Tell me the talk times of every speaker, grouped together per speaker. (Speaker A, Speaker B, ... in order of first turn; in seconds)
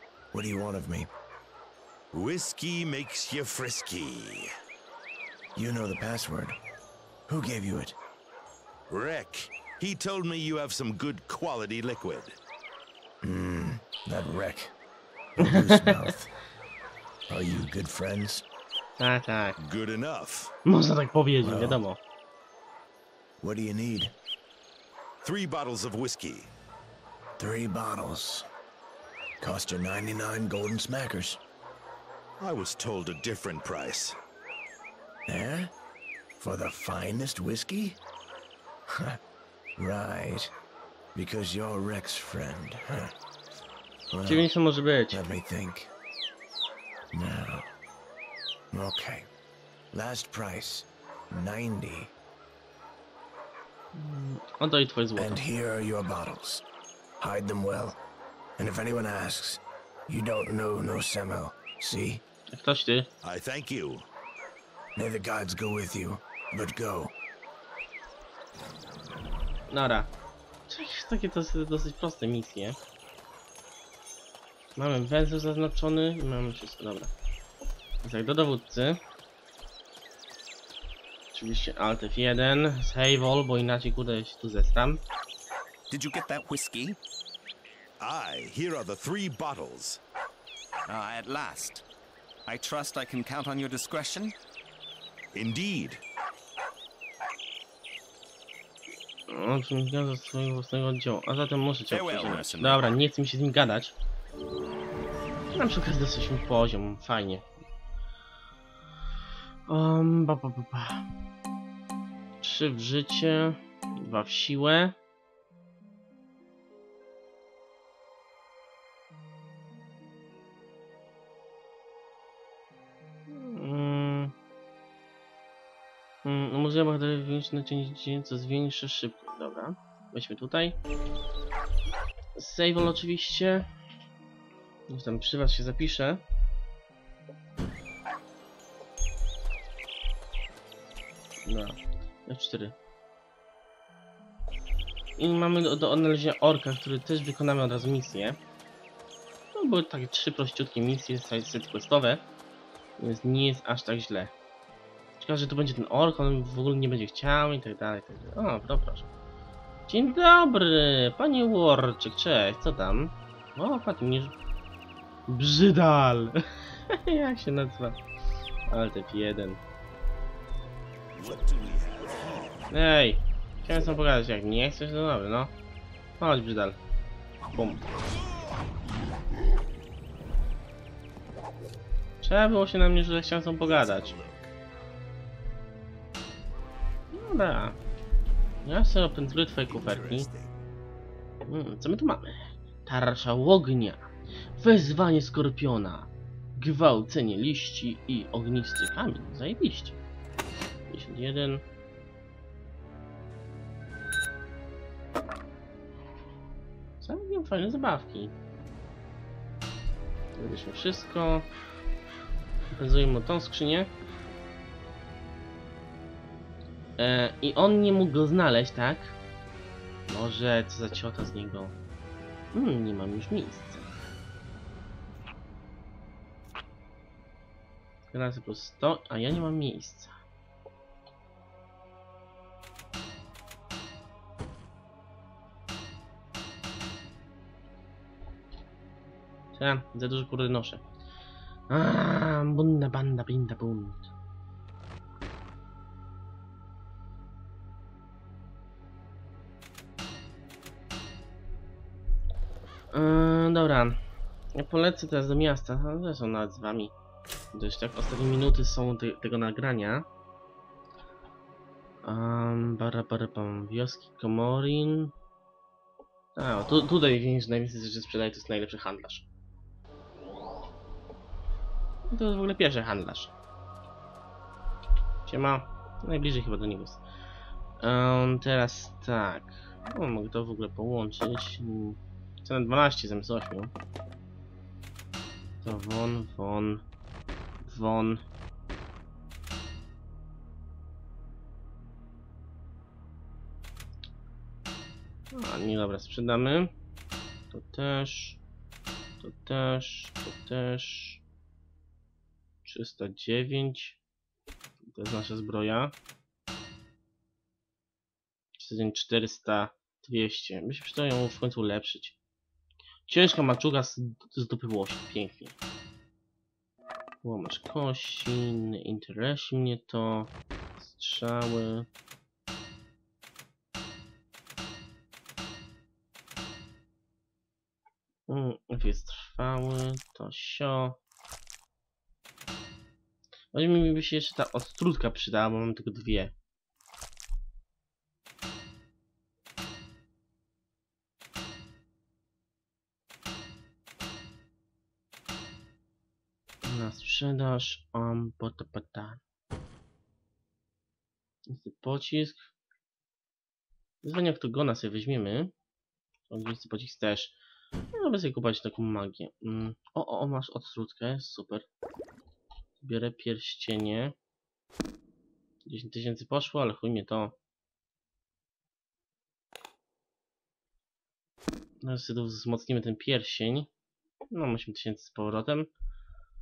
Speaker A: 0.3-1.1, 5.5-6.6, 7.3-8.0, 13.2-14.7, 15.4-16.3, 17.3-18.4, 21.4-21.8, 23.4-24.1, 27.4-28.4, 29.4-31.4, 35.3-35.7, 36.4-38.0, 39.8-40.5, 41.1-43.1, 44.1-44.5, 45.1-45.9, 47.1-47.7, 48.7-49.3, 49.9-52.1, 55.2-56.6, 57.2-58.0, 58.6-62.2, 65.0-67.1
Speaker B: 2.1-4.5, 8.9-12.4, 19.6-20.5, 25.2-26.5, 32.4-34.2, 63.2-64.0, 88.0-90.0, 95.3-96.0, 171.1-172.7, 183.6-184.5, 189.7-190.6
Speaker C: 15.4-16.0, 19.0-19.6, 20.6-22.0, 44.2-45.2, 53.9-55.4, 62.5-63.1, 69.7-70.1, 70.7-72.8, 74.8-77.1, 78.0-79.0, 81.3-85.0, 99.3-103.9, 105.5-107.4, 109.7-111.0, 112.4-114.9, 123.3-124.3, 126.2-130.8, 132.3-133.7, 134.9-136.2, 141.4-142.7, 145.2-148.4, 149.5-152.2, 153.0-154.3, 155.2-159.1, 159.9-164.3, 165.3-166.4, 166.9-168.0, 168.7-169.6, 172.7-175.5, 176.2-176.8, 177.5-177.8, 182.2-184.2, 187.1-187.8, 188.6-190.3, 191.5-194.0, 194.6-200.0, 200.9-201.6, 207.0-208.3, 210.3-211.5, 212.7-213.9, 217.0-219.2, 220.1-221.7, 222.5-223.9, 228.1-230.1, 239.5-240.8, 241.7-244.1, 252.9-254.0, 254.5-256.9, 257.5-260.1, 262.0-265.1, 266.4-269.3, 272.1-273.3, 275.2-277.0, 277.8-283.7, 285.6-286.8, 287.6-288.2, 295.3-296.7, 297.5-298.4, 299.2-301.2, 302.6-304.0, 304.8-305.9, 308.6-312.1, 313.1-315.5, 317.2-321.9, 328.3-331.0, 333.5-336.3, 346.6-349.2, 351.5-352.5, 354.0-355.5, 356.3-357.4, 357.9-361.6, 362.8-364.1, 365.6-367.4, 371.8-373.7, 374.3-375.7
Speaker D: 85.9-87.0, 90.9-91.8, 92.5-94.3, 101.9-102.9